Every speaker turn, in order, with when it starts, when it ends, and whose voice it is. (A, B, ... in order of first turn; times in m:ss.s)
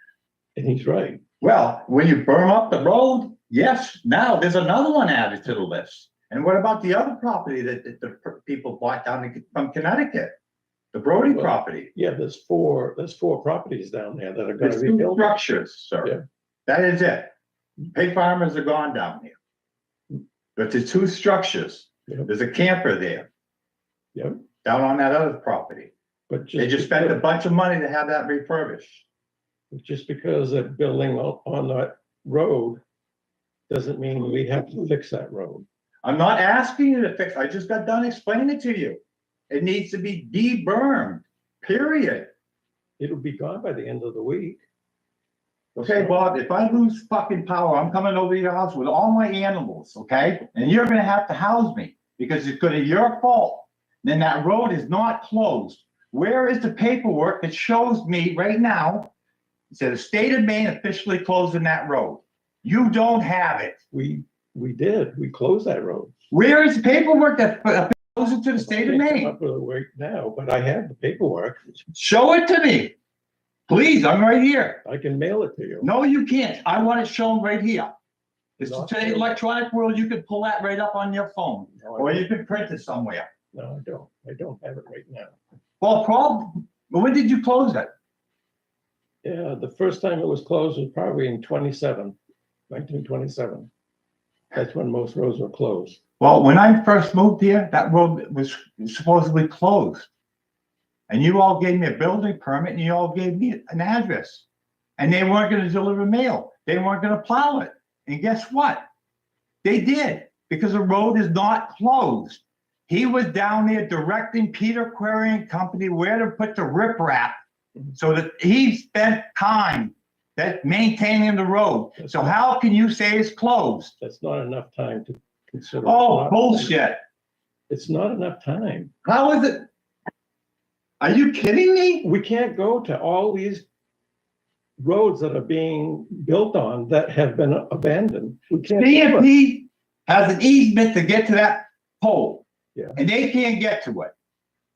0:00.6-0:01.2 A
0:01.4-0:10.3 B
0:10.9-0:11.9 B
0:11.3-0:15.3 A
0:14.6-0:16.2 B
0:16.7-0:17.3 B
0:17.9-0:19.3 B
0:20.6-0:23.3 B
0:24.6-0:25.9 B
0:26.3-0:27.2 A
0:26.6-0:29.0 B
0:29.7-0:32.8 A
0:33.7-0:35.6 A
0:36.0-0:42.3 B
0:43.0-0:44.6 A
0:45.8-0:46.2 A
0:45.8-0:59.1 B
0:59.7-1:03.8 B
1:03.9-1:06.1 A
1:06.3-1:09.3 B
1:08.6-1:11.7 A
1:11.9-1:12.9 B
1:13.7-1:14.8 B
1:14.8-1:15.9 A
1:15.8-1:17.9 B
1:18.6-1:19.4 A
1:18.6-1:23.2 B
1:21.8-1:22.3 A
1:23.5-1:25.3 A
1:25.8-1:27.9 B
1:29.2-1:32.2 A
1:32.7-1:33.7 A
1:34.5-1:36.0 A
1:36.2-1:40.1 B
1:41.1-1:44.4 B
1:45.0-1:48.8 B
1:49.6-1:57.4 B
1:57.9-2:03.9 B
2:02.0-2:02.3 A
2:04.0-2:06.7 A
2:05.8-2:07.0 B
2:07.7-2:08.9 A
2:09.0-2:09.7 B
2:11.0-2:12.0 B
2:12.0-2:13.6 A
2:14.8-2:19.3 A
2:18.6-2:22.4 B
2:23.0-2:24.1 B